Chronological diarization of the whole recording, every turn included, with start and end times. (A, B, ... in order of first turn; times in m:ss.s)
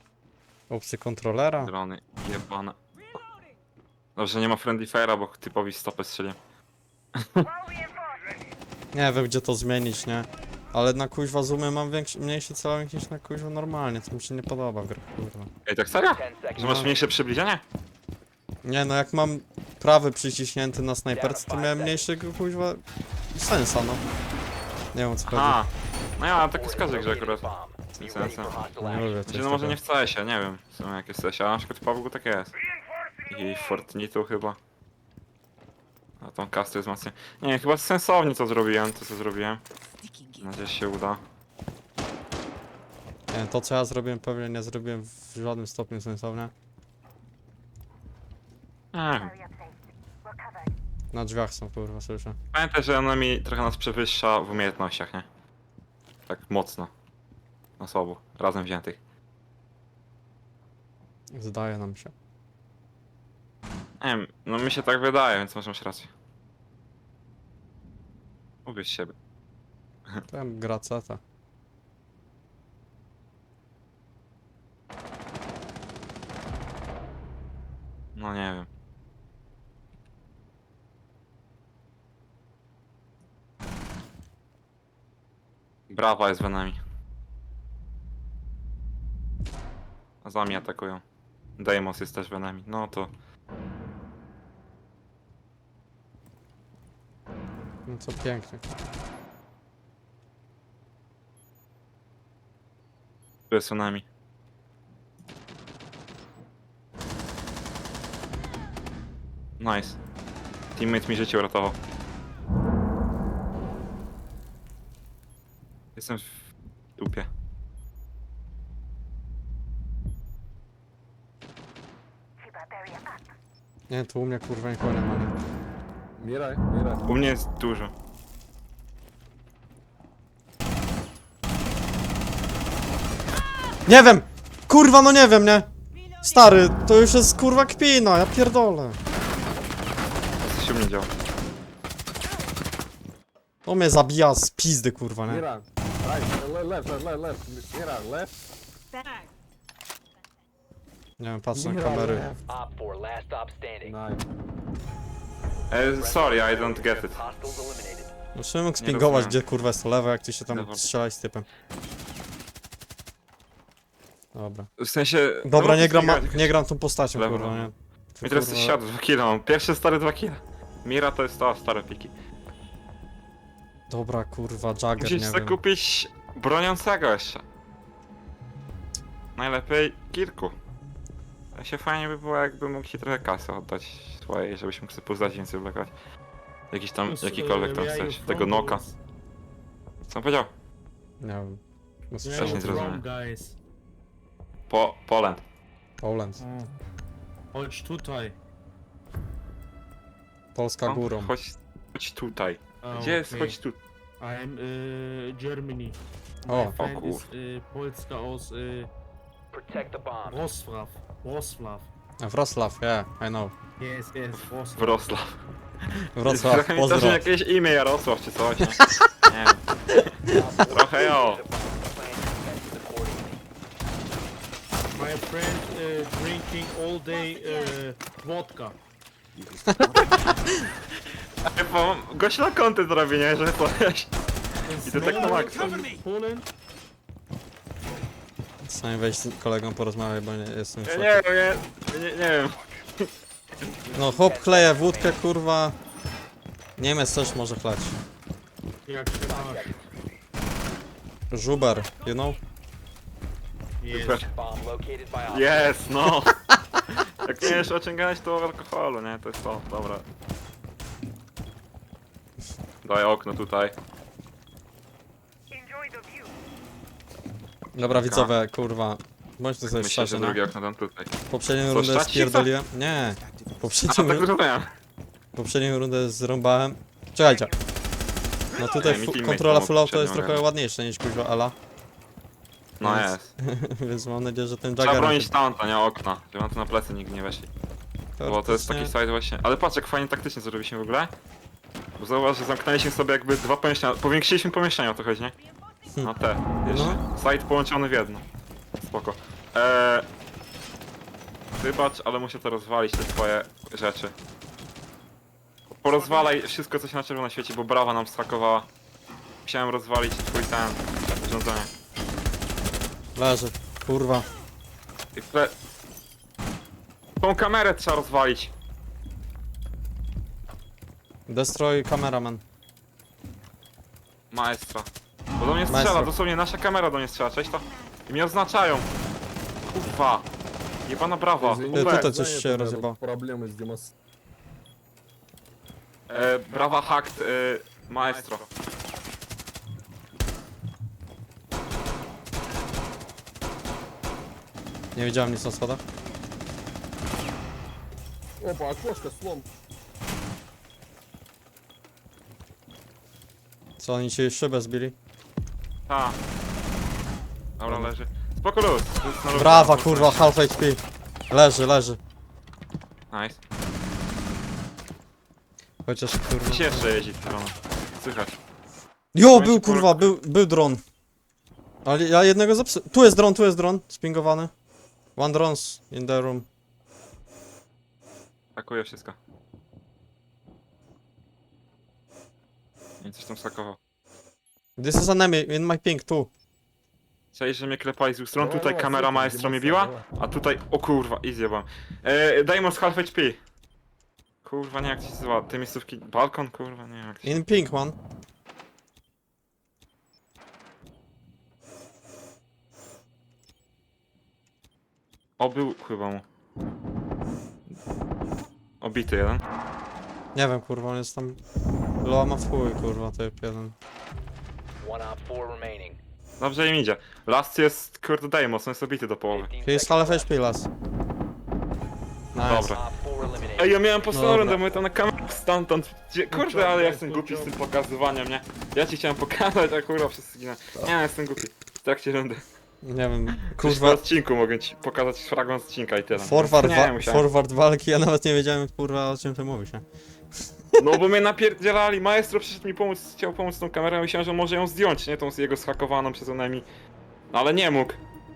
0:00.7-0:01.7 A
0:01.6-0:02.8 B
0:04.2-0:06.4 B
0:07.2-0:07.5 B
0:08.9-0:15.5 A
0:15.7-0:17.6 B
0:16.2-0:17.0 C
0:16.6-0:16.9 A
0:18.6-0:22.8 A
0:21.1-0:22.1 C
0:23.3-0:24.0 A
0:24.9-0:25.6 A
0:25.2-0:27.4 B
0:26.2-0:29.2 C
0:28.0-0:28.5 B
0:28.8-0:29.8 A
0:29.3-0:32.6 B
0:33.3-0:34.6 B
0:36.2-0:39.6 B
0:40.2-0:41.2 B
0:43.3-0:46.5 A
0:48.9-0:49.4 B
0:51.1-0:52.4 A
0:52.5-0:55.3 B
0:56.3-0:56.9 B
0:57.8-0:59.0 B
1:01.3-1:02.1 A
1:04.0-1:06.1 B
1:08.7-1:09.1 B
1:10.3-1:11.2 A
1:18.2-1:18.7 B
1:25.9-1:26.8 B
1:30.2-1:31.0 B
1:31.6-1:33.1 B
1:37.9-1:38.6 A
1:43.5-1:44.0 B
1:49.6-1:50.0 B
1:50.8-1:51.8 B
1:56.0-1:56.5 B
1:57.0-1:57.3 B
2:03.9-2:05.4 A
2:06.2-2:07.1 D
2:07.1-2:07.9 B
2:13.9-2:15.7 A
2:16.2-2:19.0 A
2:20.4-2:21.1 B
2:23.6-2:25.4 A
2:25.3-2:28.3 D
2:31.2-2:32.3 A
2:31.5-2:32.4 D
2:32.5-2:34.0 C
2:33.8-2:34.2 D
2:35.7-2:37.2 B
2:36.0-2:38.1 C
2:38.4-2:41.5 A
2:38.8-2:39.4 B
2:40.5-2:40.8 B
2:44.3-2:44.7 A
2:44.8-2:46.5 B
2:45.4-2:48.8 A
2:47.2-2:47.7 B
2:48.2-2:52.1 B
2:53.9-2:55.6 A
2:55.0-2:57.4 B
2:59.4-3:00.6 B
3:01.6-3:05.9 B
3:06.7-3:08.8 B
3:07.1-3:08.9 E
3:10.1-3:10.5 B
3:11.2-3:11.6 A
3:12.1-3:12.9 A
3:12.2-3:13.6 E
3:12.4-3:13.0 B
3:14.7-3:15.4 B
3:16.0-3:16.4 A
3:16.4-3:16.7 E
3:17.5-3:18.4 E
3:20.5-3:21.3 A
3:20.8-3:23.8 B
3:22.8-3:23.6 E
3:24.2-3:28.9 E
3:26.5-3:26.8 A
3:26.8-3:27.3 B
3:29.5-3:30.4 C
3:30.2-3:31.9 E
3:32.2-3:33.5 A
3:33.8-3:35.0 E
3:34.8-3:41.4 B
3:36.2-3:37.3 A
3:38.6-3:39.0 A
3:40.3-3:43.5 C
3:44.9-3:48.8 E
3:49.7-3:50.6 A
3:51.4-3:54.1 B
3:54.7-3:56.5 E
3:54.8-3:55.8 B
3:58.6-4:01.2 A
4:00.8-4:03.1 B
4:03.9-4:05.2 C
4:03.9-4:05.8 A
4:06.8-4:08.0 A
4:08.9-4:09.7 E
4:09.2-4:09.9 C
4:11.3-4:12.4 A
4:13.8-4:14.3 E
4:13.9-4:14.3 B
4:14.2-4:15.8 C
4:15.3-4:20.0 B
4:22.8-4:23.8 B
4:27.8-4:30.4 A
4:27.8-4:28.3 B
4:29.7-4:31.1 B
4:31.3-4:34.3 A
4:31.7-4:32.5 B
4:33.9-4:34.7 B
4:35.4-4:37.5 A
4:38.6-4:41.6 A
4:38.7-4:40.4 B
4:42.8-4:43.3 B
4:42.8-4:45.3 A
4:44.8-4:47.5 B
4:48.2-4:48.9 A
4:48.3-4:51.1 B
4:52.0-4:55.4 B
4:56.0-4:58.2 B
4:56.6-4:57.0 A
4:58.8-5:00.1 B
5:01.6-5:04.1 B
5:05.8-5:08.7 B
5:09.4-5:11.7 B
5:13.2-5:14.3 A
5:15.2-5:15.5 B
5:17.2-5:18.5 B
5:21.3-5:22.4 A
5:24.3-5:28.9 B
5:25.7-5:26.1 A
5:29.7-5:30.3 B
5:30.9-5:32.1 B
5:31.4-5:33.9 D
5:31.7-5:33.0 A
5:36.1-5:38.5 B
5:45.0-5:45.8 A
5:48.4-5:49.5 D
5:53.8-5:55.0 A
5:55.9-5:56.2 B
5:57.6-6:00.3 B
5:59.3-6:02.0 A
6:03.1-6:03.4 B
6:05.8-6:06.9 A
6:06.5-6:08.3 B
6:09.1-6:10.8 A
6:09.3-6:10.1 B
6:11.8-6:14.5 A
6:15.2-6:16.5 A
6:18.6-6:19.2 B
6:23.0-6:23.8 B
6:24.8-6:26.3 A
6:27.3-6:33.4 B
6:28.4-6:30.0 D
6:34.4-6:37.4 B
6:37.2-6:38.0 A
6:45.4-6:46.2 B
6:48.8-6:49.4 B
6:50.3-6:51.4 A
6:52.0-6:53.8 A
6:54.8-6:56.0 C
6:56.4-6:59.5 B
6:59.3-7:00.3 C
6:59.6-7:00.7 A
7:02.3-7:02.8 A
7:02.4-7:02.8 B
7:02.7-7:03.8 C
7:03.6-7:12.4 B
7:04.1-7:04.6 A
7:06.3-7:07.5 E
7:12.8-7:14.0 A
7:13.4-7:17.3 B
7:16.2-7:19.8 A
7:20.4-7:21.0 A
7:20.8-7:26.6 B
7:27.3-7:28.0 B